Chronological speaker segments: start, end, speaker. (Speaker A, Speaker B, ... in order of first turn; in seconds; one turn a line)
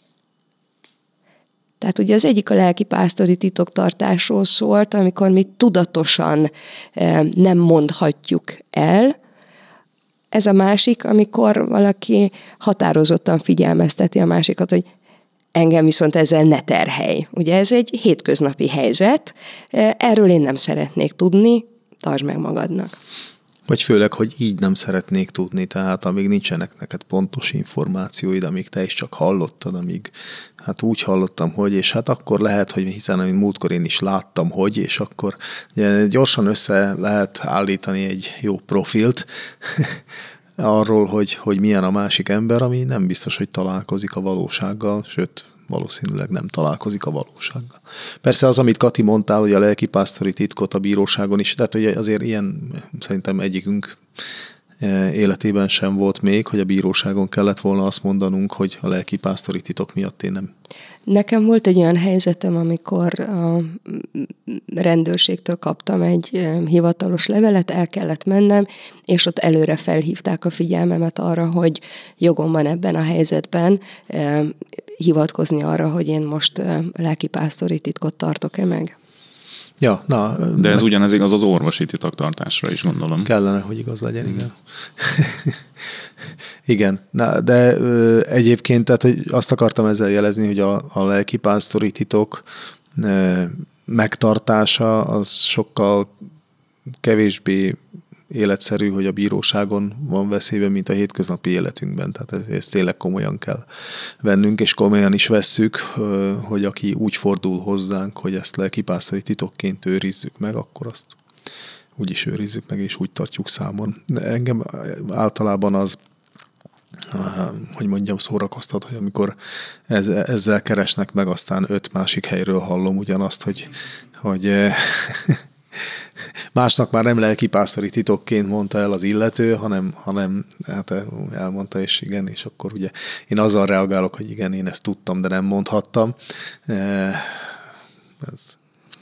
Speaker A: 1.8-9.2
Speaker A: 10.3-14.8
Speaker A: 15.5-22.9
Speaker B: 23.7-40.0
Speaker B: 40.6-54.0
Speaker B: 54.8-60.5
Speaker A: 61.1-78.9
Speaker B: 79.8-80.8
Speaker C: 80.6-83.3
Speaker B: 83.2-85.6
Speaker B: 86.6-96.1
Speaker B: 97.0-97.8
Speaker B: 98.3-103.6
Speaker B: 104.2-111.2
Speaker B: 112.0-116.0
Speaker B: 117.1-119.3
Speaker B: 119.9-136.1
Speaker B: 136.7-137.5
Speaker B: 138.2-138.5